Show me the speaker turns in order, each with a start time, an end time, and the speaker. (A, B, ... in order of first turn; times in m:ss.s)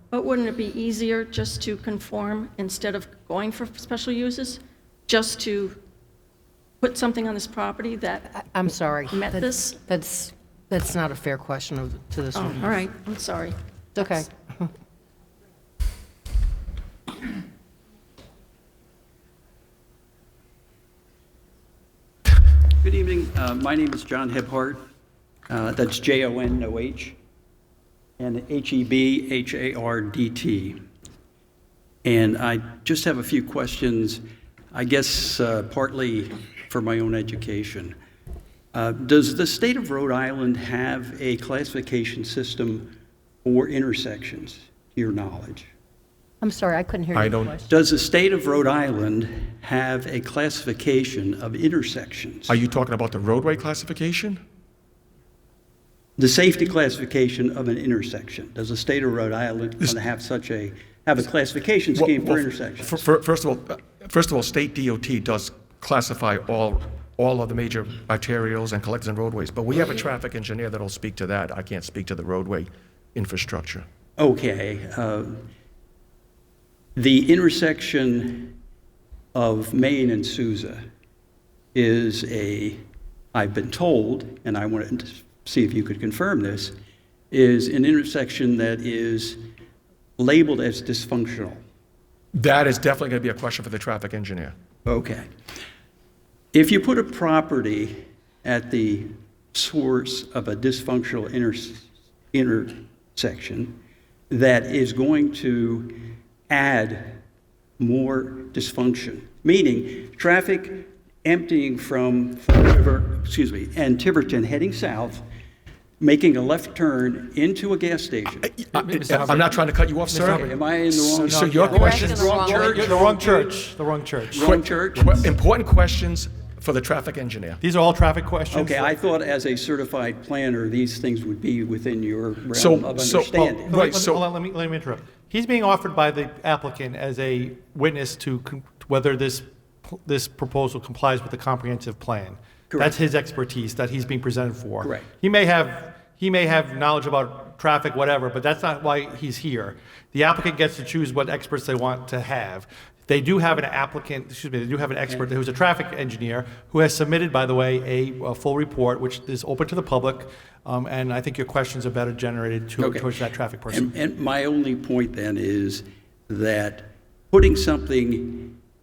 0:00.1-0:05.8 A
0:06.8-0:08.2 A
0:08.3-0:12.8 B
0:09.1-0:09.8 A
0:12.4-0:13.6 A
0:14.0-0:14.7 B
0:22.8-0:24.8 C
0:25.5-0:27.2 C
0:28.2-0:30.8 C
0:32.0-0:38.0 C
0:38.7-0:42.9 C
0:43.4-0:45.7 C
0:46.4-0:47.7 B
0:47.2-0:47.6 D
0:47.7-0:52.6 C
0:52.5-0:54.4 D
0:56.2-1:03.0 C
1:02.0-1:13.9 D
1:14.2-1:15.4 C
1:17.0-1:18.6 C
1:19.3-1:20.8 C
1:21.8-1:22.8 C
1:23.3-1:26.7 C
1:27.3-1:29.4 C
1:30.2-1:31.6 C
1:32.4-1:34.6 D
1:34.9-1:35.3 C
1:36.5-1:43.8 C
1:44.3-1:47.2 C
1:47.8-1:55.2 C
1:56.0-1:58.5 C
1:58.5-2:02.2 D
1:58.7-2:04.4 E
2:00.2-2:03.5 C
2:01.8-2:02.8 B
2:04.3-2:05.3 C
2:04.4-2:07.6 D
2:07.6-2:09.0 E
2:08.5-2:13.8 C
2:12.5-2:14.2 D
2:13.3-2:43.9 E
2:42.8-2:43.1 C
2:43.7-2:48.6 C